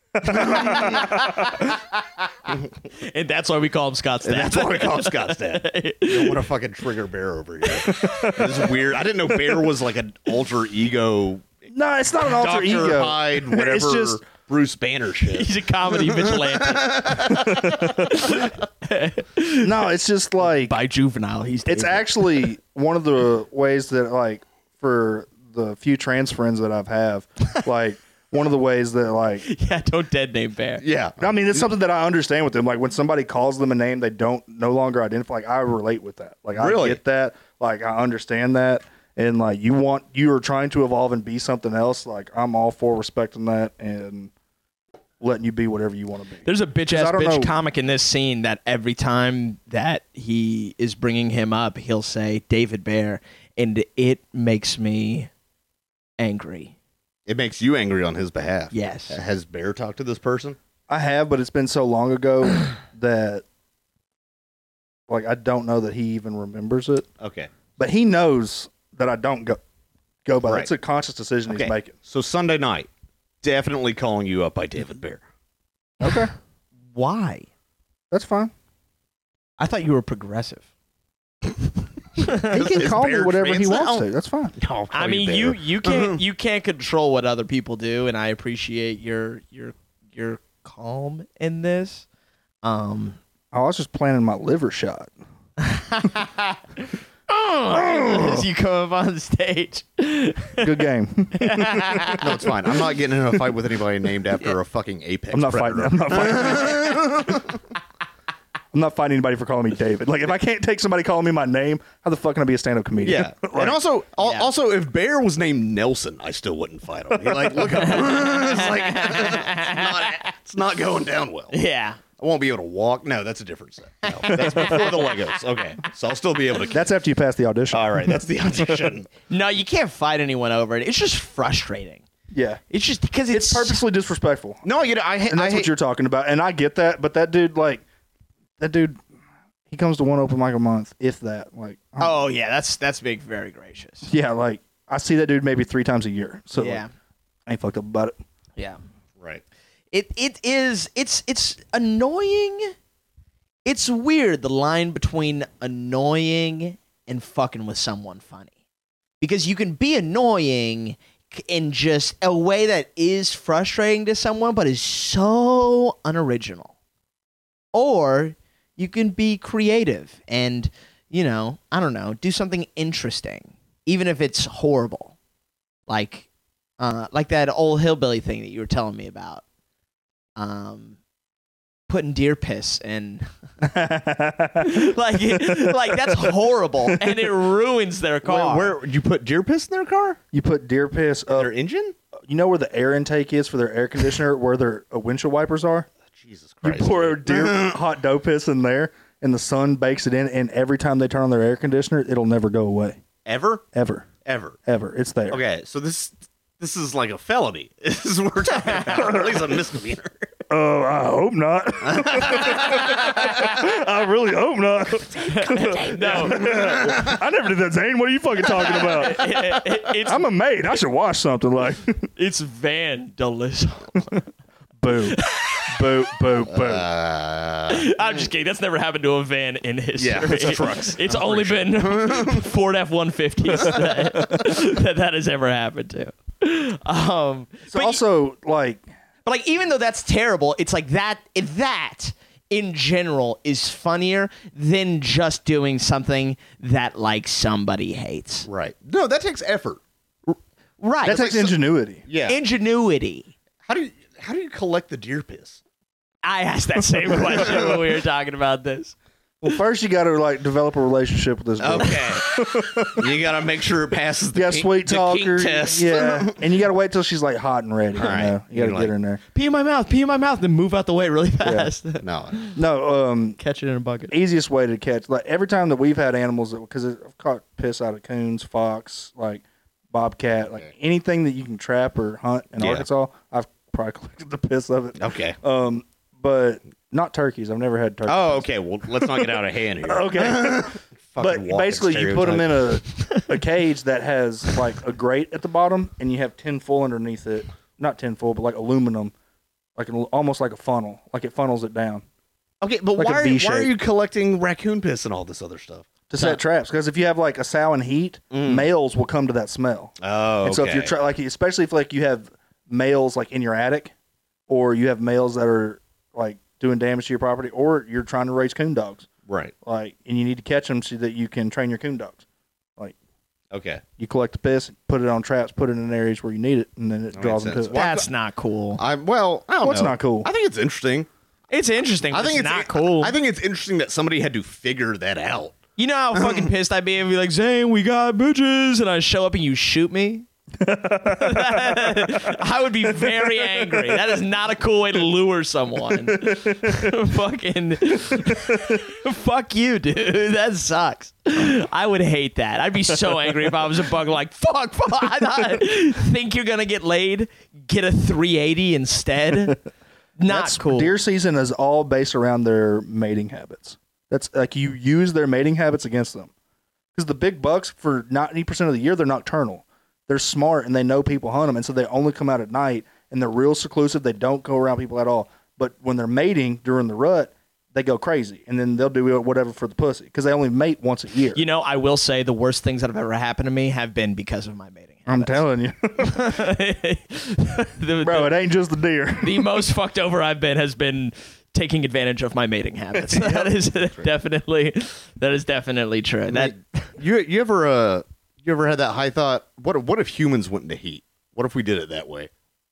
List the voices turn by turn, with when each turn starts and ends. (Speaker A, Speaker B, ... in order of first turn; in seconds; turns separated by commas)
Speaker A: 0.2-1.0, Speaker B: 0.3-2.2, Speaker C: 0.3-1.1, Speaker B: 3.0-6.4, Speaker C: 4.2-11.6, Speaker B: 7.7-8.4, Speaker A: 7.8-8.7, Speaker A: 11.7-14.2, Speaker C: 12.2-17.7, Speaker B: 15.3-19.8, Speaker A: 17.3-18.2, Speaker A: 19.6-20.7, Speaker B: 20.4-22.5, Speaker A: 21.6-29.5, Speaker B: 29.4-30.8, Speaker C: 30.8-31.6, Speaker A: 31.2-44.3, Speaker C: 36.5-37.0, Speaker A: 45.2-47.5, Speaker B: 46.4-55.3, Speaker B: 56.2-56.7, Speaker C: 57.3-60.6, Speaker B: 58.7-59.2, Speaker A: 60.9-63.4, Speaker A: 65.1-67.1, Speaker C: 67.2-67.5, Speaker A: 67.8-69.6, Speaker A: 70.2-71.9, Speaker C: 71.5-72.9, Speaker C: 73.4-75.2, Speaker A: 76.0-76.3, Speaker B: 76.9-77.5, Speaker A: 78.1-78.5, Speaker B: 79.6-80.6, Speaker B: 82.2-82.5, Speaker C: 82.4-86.2, Speaker A: 82.5-84.5, Speaker B: 84.9-92.0, Speaker B: 92.6-93.2, Speaker A: 93.5-95.1, Speaker B: 95.6-100.8, Speaker A: 98.1-98.4, Speaker A: 100.6-102.2, Speaker B: 101.3-102.3, Speaker C: 102.2-107.5, Speaker A: 105.3-107.3, Speaker A: 108.7-113.8, Speaker C: 113.0-121.5, Speaker B: 114.2-114.5, Speaker B: 117.8-120.3, Speaker B: 121.5-122.0, Speaker C: 122.2-126.8, Speaker B: 124.0-124.8, Speaker A: 124.3-124.9, Speaker A: 126.7-128.0, Speaker C: 127.7-129.1, Speaker B: 129.3-132.0, Speaker A: 132.3-132.6, Speaker B: 132.7-133.8, Speaker A: 133.3-134.6, Speaker C: 134.6-135.7, Speaker A: 135.3-137.8, Speaker A: 138.6-139.0, Speaker A: 139.7-142.2, Speaker B: 142.0-144.1, Speaker A: 144.1-146.8, Speaker B: 146.6-146.9, Speaker A: 147.4-148.2, Speaker B: 149.9-152.7, Speaker B: 153.7-158.5, Speaker B: 159.2-166.7, Speaker B: 167.7-175.1, Speaker B: 175.9-176.3, Speaker B: 176.8-179.4, Speaker B: 180.4-181.0, Speaker B: 181.9-183.3, Speaker A: 183.6-187.3, Speaker B: 184.6-188.7, Speaker C: 188.2-190.2, Speaker A: 190.3-191.5, Speaker C: 191.3-191.9, Speaker A: 192.3-195.9, Speaker C: 196.1-197.8, Speaker A: 196.6-203.0, Speaker C: 203.2-203.6, Speaker A: 203.7-204.1, Speaker C: 204.2-204.6, Speaker A: 204.6-205.4, Speaker C: 205.3-210.3, Speaker A: 208.9-209.3, Speaker A: 210.5-222.1, Speaker C: 211.8-213.5, Speaker B: 215.2-216.6, Speaker C: 216.1-217.2, Speaker B: 218.4-220.2, Speaker B: 222.2-224.1, Speaker A: 224.8-226.8, Speaker B: 225.1-225.8, Speaker C: 226.5-228.2, Speaker B: 227.7-238.0, Speaker C: 230.0-232.4, Speaker A: 237.7-238.8, Speaker B: 239.2-248.5, Speaker C: 248.5-249.8, Speaker B: 250.3-251.2, Speaker A: 251.1-252.0, Speaker C: 251.1-251.5, Speaker C: 252.1-252.4, Speaker B: 252.2-253.3, Speaker C: 253.6-255.6, Speaker B: 256.2-258.9, Speaker A: 259.4-263.2, Speaker C: 261.6-266.5, Speaker A: 264.3-269.2, Speaker C: 267.9-268.9, Speaker B: 269.3-272.5, Speaker A: 271.4-271.7, Speaker C: 272.0-272.3, Speaker A: 272.5-273.4, Speaker B: 273.4-274.1, Speaker A: 274.1-299.1, Speaker C: 282.6-282.8, Speaker C: 285.0-285.4, Speaker C: 288.1-292.7, Speaker A: 299.8-302.0, Speaker C: 302.6-305.9, Speaker A: 302.9-303.7, Speaker A: 306.1-313.9, Speaker C: 308.3-308.7, Speaker C: 310.0-310.9, Speaker A: 314.5-319.1, Speaker C: 319.3-319.5, Speaker A: 319.6-322.2, Speaker C: 323.5-323.8, Speaker A: 324.0-327.7, Speaker C: 327.1-328.1, Speaker B: 327.7-328.8, Speaker C: 328.8-331.1, Speaker A: 329.6-330.3, Speaker B: 331.5-333.1, Speaker C: 332.1-335.6, Speaker B: 335.8-340.2, Speaker C: 336.1-336.5, Speaker A: 340.6-344.1, Speaker B: 341.1-359.6, Speaker A: 346.1-346.9, Speaker A: 348.1-348.8, Speaker B: 360.2-360.9, Speaker A: 360.3-366.3, Speaker A: 366.9-381.4, Speaker B: 381.3-385.4, Speaker A: 385.1-386.3, Speaker B: 386.0-388.3, Speaker A: 388.0-389.6, Speaker B: 389.2-396.9, Speaker A: 392.9-393.5, Speaker C: 396.3-402.3